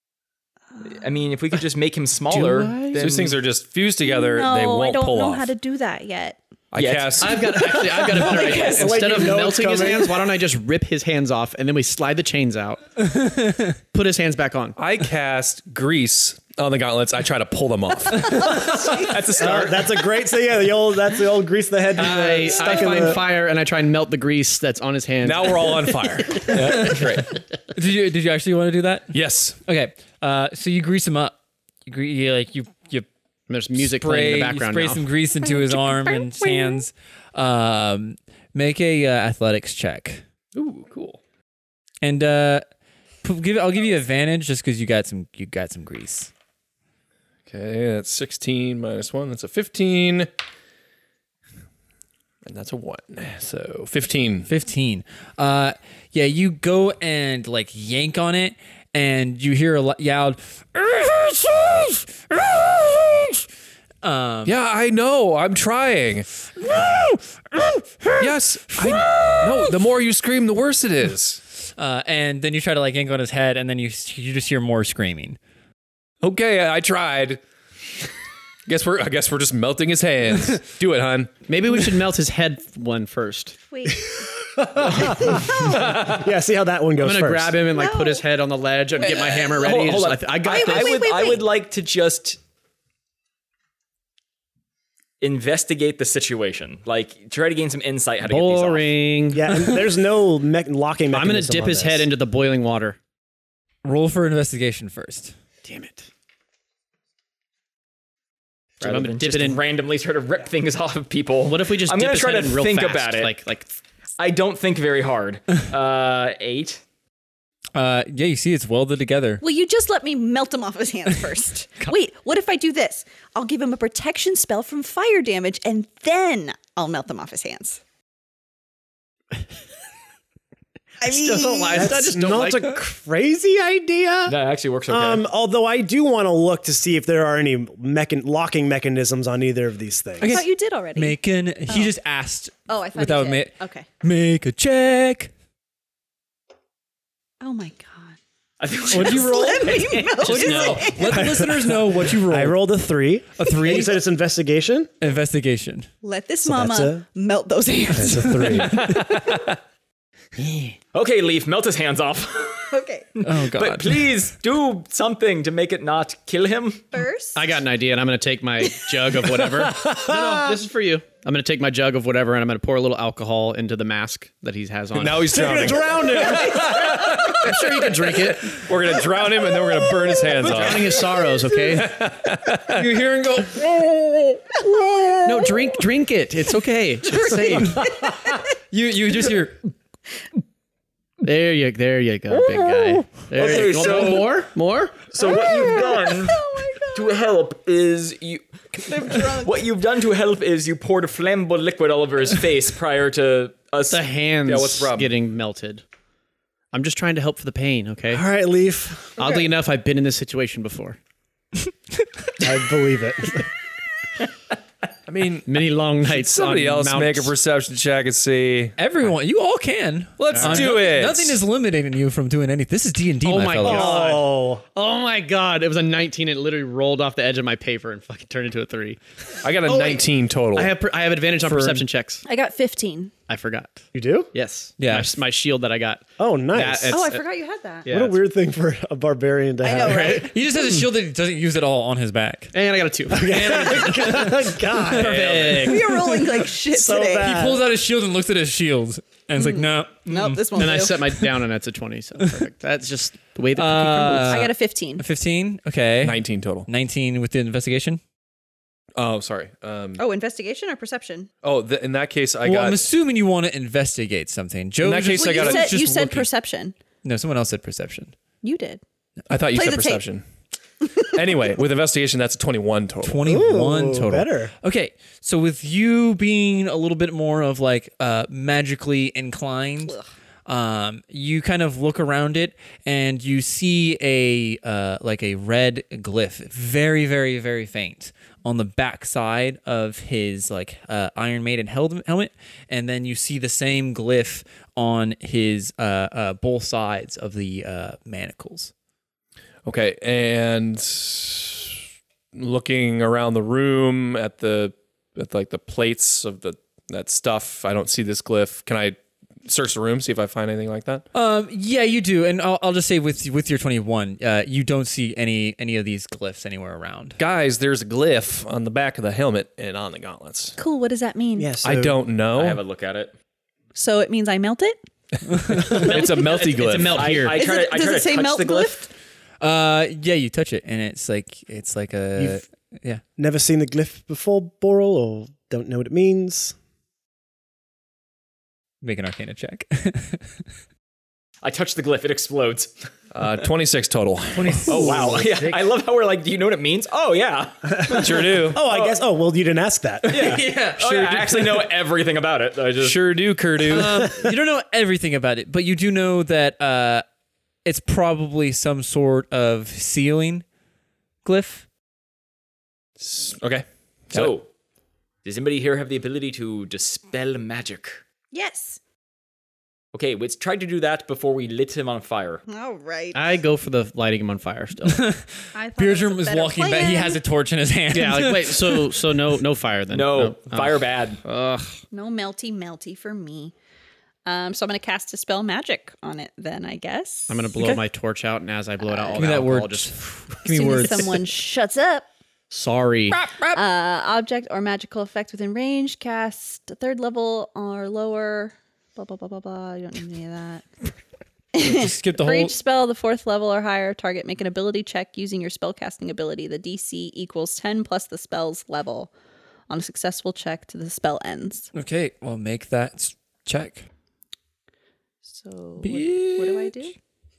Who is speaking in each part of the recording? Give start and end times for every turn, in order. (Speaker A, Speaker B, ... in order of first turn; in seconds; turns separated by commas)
Speaker A: 0.8-3.4, Speaker B: 2.3-3.4, Speaker C: 3.0-5.5, Speaker D: 4.0-6.4, Speaker C: 6.7-7.6, Speaker A: 6.7-7.4, Speaker B: 7.2-12.8, Speaker D: 7.4-9.3, Speaker E: 8.5-10.1, Speaker F: 13.1-13.8, Speaker B: 13.9-14.8, Speaker C: 14.8-19.1, Speaker F: 18.4-18.8, Speaker A: 18.9-19.9, Speaker E: 19.4-23.2, Speaker B: 21.9-26.5, Speaker C: 25.2-26.5, Speaker A: 26.5-27.3, Speaker F: 26.5-27.2, Speaker F: 27.8-31.4, Speaker C: 29.1-29.6, Speaker F: 31.9-33.1, Speaker B: 33.5-35.1, Speaker F: 33.8-40.2, Speaker D: 36.0-36.8, Speaker C: 40.6-41.2, Speaker F: 42.0-42.6, Speaker F: 43.2-46.3, Speaker C: 47.5-50.3, Speaker C: 52.5-54.5, Speaker F: 54.5-63.5, Speaker F: 64.0-64.6, Speaker C: 64.5-66.3, Speaker F: 66.6-69.7, Speaker C: 68.2-71.4, Speaker F: 71.6-75.4, Speaker C: 76.2-77.4, Speaker C: 78.7-81.4, Speaker B: 81.5-83.6, Speaker D: 83.7-84.3, Speaker E: 84.6-87.5, Speaker B: 84.8-85.7, Speaker D: 85.3-85.8, Speaker C: 85.8-86.2, Speaker B: 87.0-91.2, Speaker D: 87.7-88.2, Speaker D: 89.0-89.5, Speaker A: 89.0-92.4, Speaker D: 90.4-91.5, Speaker A: 95.2-99.0, Speaker B: 98.2-99.9, Speaker E: 99.3-102.1, Speaker B: 101.1-103.0, Speaker F: 103.8-105.3, Speaker B: 105.7-106.1, Speaker B: 108.8-109.6, Speaker A: 108.8-113.3, Speaker B: 111.4-113.7, Speaker A: 114.2-116.8, Speaker F: 117.8-119.4, Speaker D: 119.4-127.8, Speaker D: 131.0-132.0, Speaker B: 131.1-132.5, Speaker C: 131.3-132.6, Speaker E: 131.7-134.4, Speaker A: 134.3-135.2, Speaker E: 134.9-140.3, Speaker F: 140.2-145.3, Speaker D: 140.2-142.0, Speaker D: 142.7-143.9, Speaker D: 147.4-148.2, Speaker A: 148.6-150.6, Speaker D: 148.8-151.4, Speaker F: 148.9-152.6, Speaker E: 151.1-154.9, Speaker F: 153.4-153.9, Speaker F: 155.0-155.9, Speaker D: 156.0-158.9, Speaker E: 156.4-157.0, Speaker E: 157.9-159.0, Speaker F: 158.1-158.7, Speaker C: 158.8-159.4, Speaker A: 160.9-166.9, Speaker D: 162.7-163.1, Speaker F: 163.2-164.1, Speaker D: 166.9-167.6, Speaker B: 167.3-175.9, Speaker C: 169.8-170.5, Speaker C: 174.9-181.1, Speaker E: 175.3-176.8, Speaker D: 176.2-177.4, Speaker B: 177.4-178.8, Speaker D: 179.8-180.2, Speaker B: 180.3-182.0, Speaker F: 180.4-181.1, Speaker C: 181.8-183.6, Speaker F: 182.7-184.4, Speaker D: 184.6-185.6, Speaker B: 185.2-187.9, Speaker F: 187.1-189.6, Speaker D: 187.1-188.4, Speaker B: 191.2-195.2, Speaker A: 193.3-194.5, Speaker A: 195.1-204.7, Speaker D: 195.2-197.3, Speaker D: 198.8-199.6, Speaker B: 203.9-205.8, Speaker C: 204.5-205.1, Speaker B: 206.7-208.2, Speaker E: 208.1-209.2, Speaker B: 209.2-211.0, Speaker E: 212.4-213.4, Speaker C: 215.1-218.8, Speaker B: 215.5-217.3, Speaker F: 218.8-224.0, Speaker C: 220.2-221.4, Speaker B: 220.3-220.8, Speaker B: 223.2-232.3, Speaker E: 223.6-224.6, Speaker C: 229.4-230.8, Speaker C: 231.4-231.8, Speaker D: 232.2-233.1, Speaker B: 233.3-237.2, Speaker E: 233.9-234.3, Speaker F: 234.8-235.2, Speaker E: 236.2-237.0, Speaker D: 236.9-237.9, Speaker B: 237.8-238.2, Speaker E: 237.9-240.3, Speaker D: 239.6-240.8, Speaker F: 239.8-242.5, Speaker B: 242.5-243.9, Speaker E: 243.1-245.4, Speaker F: 243.3-246.4, Speaker C: 245.0-245.8, Speaker B: 245.1-245.5, Speaker D: 245.5-247.5, Speaker E: 246.6-247.7, Speaker F: 247.2-251.3, Speaker D: 249.4-251.0, Speaker B: 250.6-254.5, Speaker F: 253.6-258.0, Speaker D: 254.3-255.0, Speaker C: 256.0-256.7, Speaker C: 258.9-260.0, Speaker D: 260.0-261.3, Speaker C: 261.4-262.8, Speaker F: 262.4-266.3, Speaker C: 264.8-265.8, Speaker D: 265.1-266.8, Speaker F: 267.0-268.1, Speaker D: 268.4-268.8, Speaker C: 269.3-270.2, Speaker D: 269.5-270.0, Speaker C: 270.9-273.2, Speaker F: 273.0-298.7, Speaker E: 273.2-274.5, Speaker D: 279.8-280.1, Speaker C: 299.6-301.8, Speaker C: 302.3-311.1, Speaker F: 311.1-317.2, Speaker C: 317.2-320.6, Speaker D: 320.6-321.5, Speaker E: 321.4-322.0, Speaker C: 321.6-322.6, Speaker A: 322.4-323.1, Speaker D: 323.8-324.8, Speaker F: 325.4-326.0, Speaker C: 325.5-327.2, Speaker B: 325.8-327.4, Speaker A: 326.5-328.9, Speaker D: 327.3-328.9, Speaker F: 329.4-333.0, Speaker E: 333.2-336.6, Speaker F: 338.8-340.4, Speaker A: 341.4-342.9, Speaker C: 343.1-344.9, Speaker F: 344.4-345.6, Speaker A: 344.7-348.9, Speaker E: 344.8-345.3, Speaker E: 347.7-350.4, Speaker C: 347.9-348.6, Speaker A: 350.1-353.0, Speaker F: 350.1-351.0, Speaker C: 350.9-351.5, Speaker C: 352.8-354.1, Speaker F: 353.7-357.0, Speaker E: 354.0-354.4, Speaker F: 357.6-360.4, Speaker F: 361.2-361.7, Speaker C: 363.0-364.3, Speaker A: 364.1-364.5, Speaker A: 365.2-368.0, Speaker D: 368.3-368.8, Speaker A: 369.9-372.4, Speaker D: 372.5-373.2, Speaker B: 373.1-375.1, Speaker F: 374.9-379.1, Speaker D: 375.6-377.2, Speaker B: 377.9-381.8, Speaker A: 379.9-381.2, Speaker D: 381.9-383.5, Speaker D: 384.3-387.5, Speaker B: 387.3-390.4, Speaker F: 389.2-391.2, Speaker D: 390.4-392.1, Speaker B: 392.5-393.2, Speaker F: 393.1-393.6, Speaker D: 393.5-400.7, Speaker D: 401.5-409.1, Speaker F: 401.6-402.5, Speaker D: 409.7-411.7, Speaker F: 411.7-413.9, Speaker D: 415.3-416.9, Speaker F: 415.8-416.9